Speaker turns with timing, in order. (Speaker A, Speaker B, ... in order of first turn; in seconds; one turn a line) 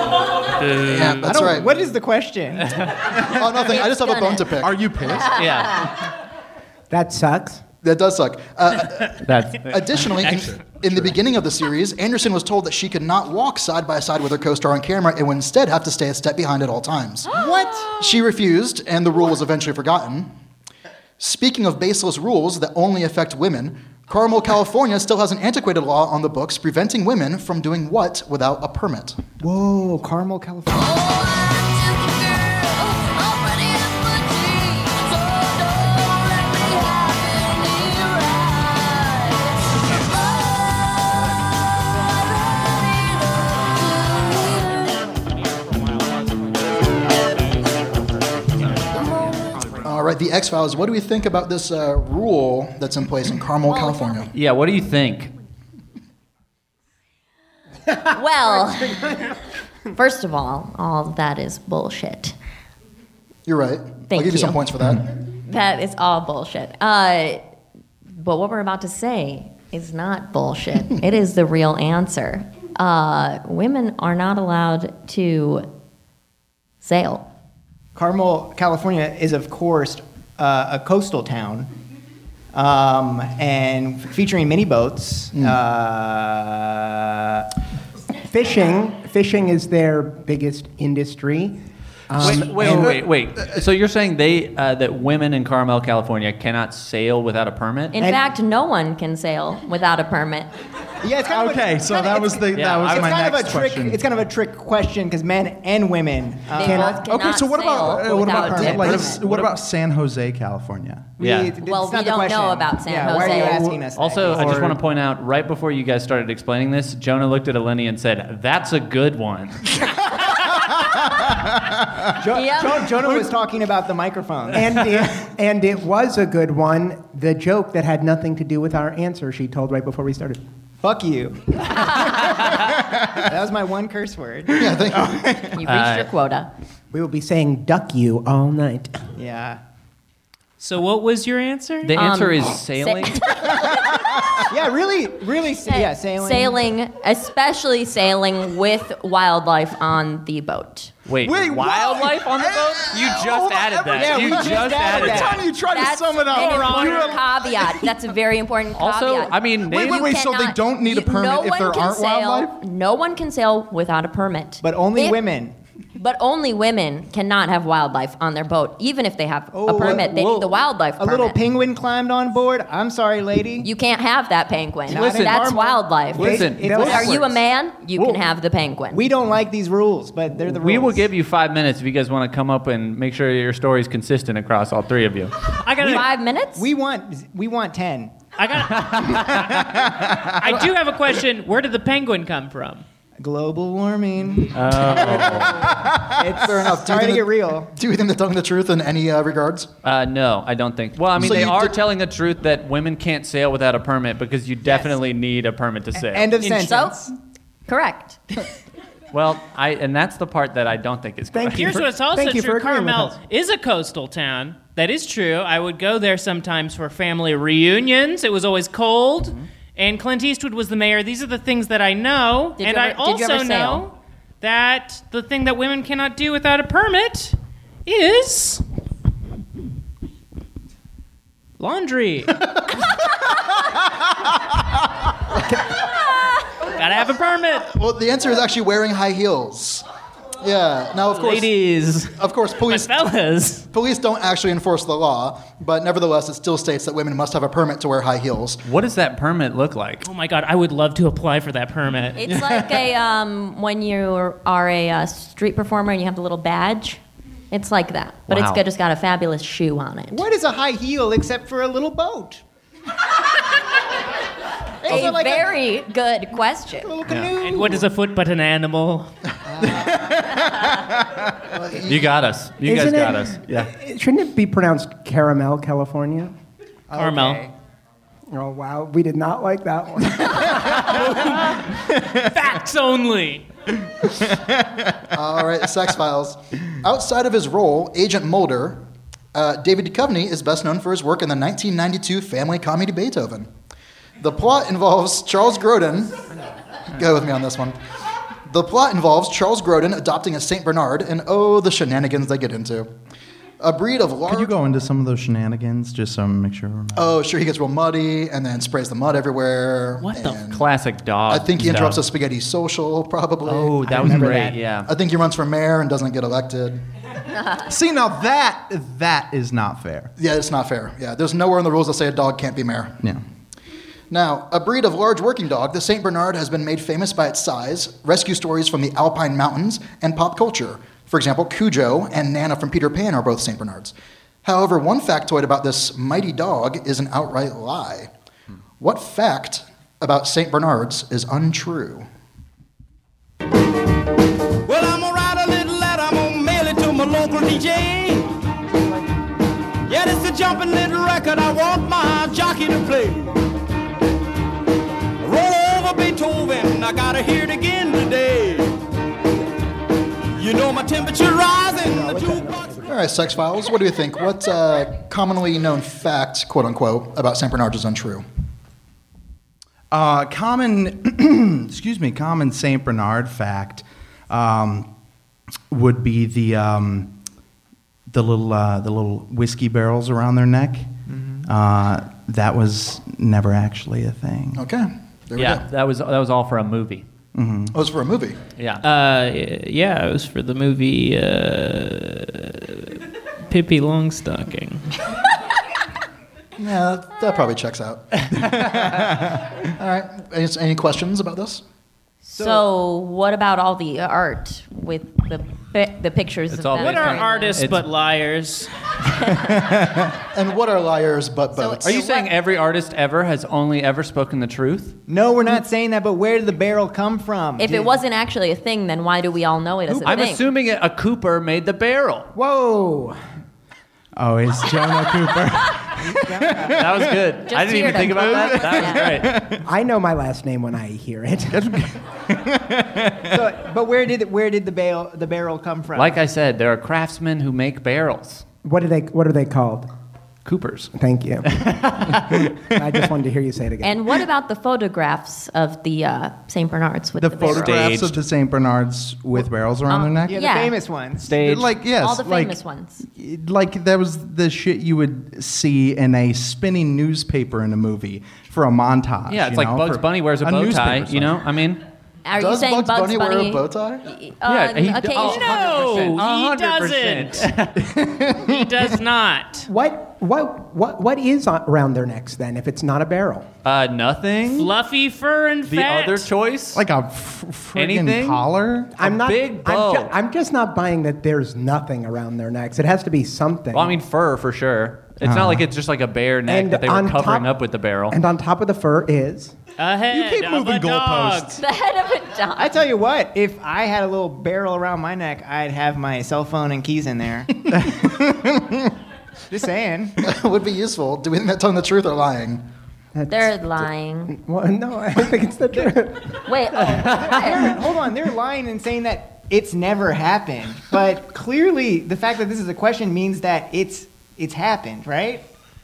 Speaker A: 0.6-1.3
Speaker B: 0.8-1.7
Speaker C: 1.2-2.9
Speaker B: 3.2-5.1
Speaker D: 3.5-4.5
Speaker E: 4.6-5.8
Speaker D: 5.1-5.9
Speaker A: 5.2-5.9
Speaker F: 6.9-7.6
Speaker B: 7.8-17.3
Speaker A: 9.2-10.3
Speaker C: 17.3-17.9
Speaker B: 18.0-20.3
Speaker B: 21.2-29.2
Speaker C: 29.4-31.0
Speaker D: 31.0-35.0
Speaker D: 36.5-39.2
Speaker B: 49.8-54.3
Speaker D: 53.6-54.3
Speaker A: 54.3-55.3
Speaker D: 58.1-59.1
Speaker D: 59.9-62.3
Speaker B: 63.5-65.0
Speaker D: 64.1-64.6
Speaker D: 65.5-67.5
Speaker D: 68.2-75.7
Speaker D: 76.8-77.3
Speaker C: 77.9-81.7
Speaker C: 82.5-87.4
Speaker F: 88.3-93.0
Speaker A: 92.2-97.9
Speaker E: 92.6-92.9
Speaker D: 97.9-100.5
Speaker C: 101.0-107.0
Speaker E: 101.2-104.0
Speaker A: 102.5-103.3
Speaker D: 106.5-109.5
Speaker F: 106.6-107.0
Speaker E: 107.0-111.1
Speaker C: 107.9-109.2
Speaker C: 111.2-114.8
Speaker A: 111.2-111.5
Speaker D: 111.6-113.6
Speaker E: 113.5-113.8
Speaker A: 113.9-119.7
Speaker E: 114.3-114.7
Speaker C: 122.1-124.8
Speaker D: 122.3-123.0
Speaker F: 124.5-130.4
Speaker C: 130.8-135.5
Speaker B: 134.5-135.2
Speaker D: 135.5-136.5
Speaker A: 135.6-136.1
Speaker F: 136.9-139.1
Speaker C: 139.2-139.6
Speaker G: 140.6-141.9
Speaker A: 141.8-143.3
Speaker D: 141.9-144.4
Speaker C: 144.5-146.6
Speaker D: 145.7-150.9
Speaker A: 151.1-155.4
Speaker E: 151.2-157.9
Speaker C: 153.9-155.5
Speaker D: 155.7-165.2
Speaker G: 156.3-157.1
Speaker A: 158.7-160.1
Speaker E: 159.7-162.6
Speaker C: 164.6-165.5
Speaker D: 165.9-171.4
Speaker C: 169.5-173.7
Speaker A: 170.1-170.4
Speaker D: 173.6-179.0
Speaker C: 174.9-177.3
Speaker A: 174.9-177.0
Speaker F: 176.2-177.2
Speaker C: 178.9-181.1
Speaker A: 180.4-185.4
Speaker G: 185.6-186.1
Speaker D: 185.8-186.6
Speaker C: 186.6-188.1
Speaker G: 188.4-189.6
Speaker A: 188.8-189.6
Speaker G: 190.3-192.8
Speaker C: 193.2-197.7
Speaker A: 194.5-195.7
Speaker B: 196.3-199.7
Speaker A: 199.8-206.3
Speaker B: 201.1-201.8
Speaker C: 204.6-204.9
Speaker C: 206.0-207.1
Speaker G: 206.4-206.7
Speaker D: 206.6-207.0
Speaker D: 207.7-208.2
Speaker A: 209.1-211.9
Speaker F: 211.3-213.2
Speaker G: 211.5-228.6
Speaker D: 222.6-223.8
Speaker G: 231.6-232.4
Speaker G: 236.6-237.7
Speaker B: 237.6-239.8
Speaker B: 240.4-241.5
Speaker G: 241.1-243.7
Speaker B: 242.1-242.9
Speaker B: 243.7-248.6
Speaker A: 248.6-250.1
Speaker G: 250.0-252.2
Speaker D: 252.2-257.0
Speaker D: 257.5-260.2
Speaker A: 258.3-258.6
Speaker C: 260.1-262.4
Speaker D: 264.8-266.9
Speaker C: 264.8-265.6
Speaker C: 266.8-267.9
Speaker A: 267.1-267.3
Speaker G: 267.4-269.1
Speaker C: 269.5-269.9
Speaker E: 269.8-270.9
Speaker B: 271.5-272.1
Speaker A: 271.8-273.7
Speaker F: 272.6-276.3
Speaker G: 276.9-277.5
Speaker F: 278.3-281.4
Speaker G: 282.1-283.5
Speaker B: 285.1-288.8
Speaker B: 289.3-293.5
Speaker B: 294.2-296.2
Speaker B: 296.9-297.8
Speaker B: 298.5-302.9
Speaker B: 303.6-304.5
Speaker E: 304.2-307.1
Speaker B: 306.9-310.6
Speaker A: 310.0-312.0
Speaker B: 311.3-316.8
Speaker A: 313.5-314.9
Speaker C: 313.9-314.6
Speaker E: 317.6-320.1
Speaker B: 320.2-323.0
Speaker B: 324.1-338.1
Speaker B: 338.8-342.1
Speaker H: 344.6-348.3
Speaker H: 349.9-353.4
Speaker H: 355.2-358.8
Speaker H: 360.4-362.7
Speaker F: 361.7-363.0
Speaker B: 362.9-368.2
Speaker E: 369.9-374.9
Speaker E: 375.7-377.1
Speaker E: 378.1-380.9
Speaker C: 381.1-381.4
Speaker E: 381.4-384.6
Speaker B: 384.5-385.6
Speaker A: 385.4-387.0
Speaker E: 387.3-387.7
Speaker B: 387.7-388.4
Speaker A: 388.6-388.8
Speaker G: 388.8-394.9
Speaker B: 396.6-398.5
Speaker B: 399.7-401.6
Speaker D: 402.3-407.6
Speaker C: 402.4-402.6
Speaker A: 406.5-407.9
Speaker G: 406.8-408.7
Speaker E: 409.5-409.8
Speaker B: 410.3-412.0
Speaker D: 411.6-412.3
Speaker A: 411.8-415.0
Speaker C: 415.1-417.9
Speaker D: 417.6-420.4
Speaker C: 419.9-420.2
Speaker A: 420.0-422.3
Speaker F: 422.3-423.2
Speaker E: 424.1-427.3
Speaker C: 426.0-426.9
Speaker A: 426.7-429.4
Speaker D: 427.4-429.2
Speaker E: 427.8-429.6
Speaker F: 429.6-431.8
Speaker E: 431.5-433.4
Speaker C: 433.3-436.1
Speaker A: 435.9-438.4
Speaker F: 438.6-439.9
Speaker A: 440.4-440.9
Speaker F: 440.9-441.5
Speaker A: 441.4-442.5
Speaker F: 442.7-444.0
Speaker D: 443.8-447.9
Speaker E: 447.2-450.4
Speaker A: 447.4-448.1
Speaker D: 449.9-450.7
Speaker C: 450.2-451.3
Speaker A: 451.2-451.7
Speaker E: 451.3-461.4
Speaker D: 452.0-453.0
Speaker A: 459.3-461.8
Speaker D: 462.2-465.8
Speaker B: 462.3-464.1
Speaker A: 464.4-467.8
Speaker G: 465.2-467.6
Speaker E: 467.8-468.5
Speaker G: 468.3-469.6
Speaker F: 469.6-473.5
Speaker A: 473.6-474.7
Speaker G: 474.5-476.3
Speaker A: 475.7-476.8
Speaker E: 476.7-478.9
Speaker A: 477.7-478.4
Speaker F: 478.9-484.0
Speaker A: 479.0-480.1
Speaker A: 483.7-488.2
Speaker E: 485.2-485.6
Speaker F: 486.5-487.5
Speaker F: 488.1-489.5
Speaker G: 489.8-491.6
Speaker E: 490.1-491.6
Speaker D: 491.6-492.8
Speaker C: 492.6-497.6
Speaker E: 497.7-498.9
Speaker C: 499.5-500.2
Speaker B: 500.2-502.6
Speaker F: 503.1-506.4
Speaker D: 503.3-504.3
Speaker D: 506.4-507.7
Speaker C: 507.0-515.4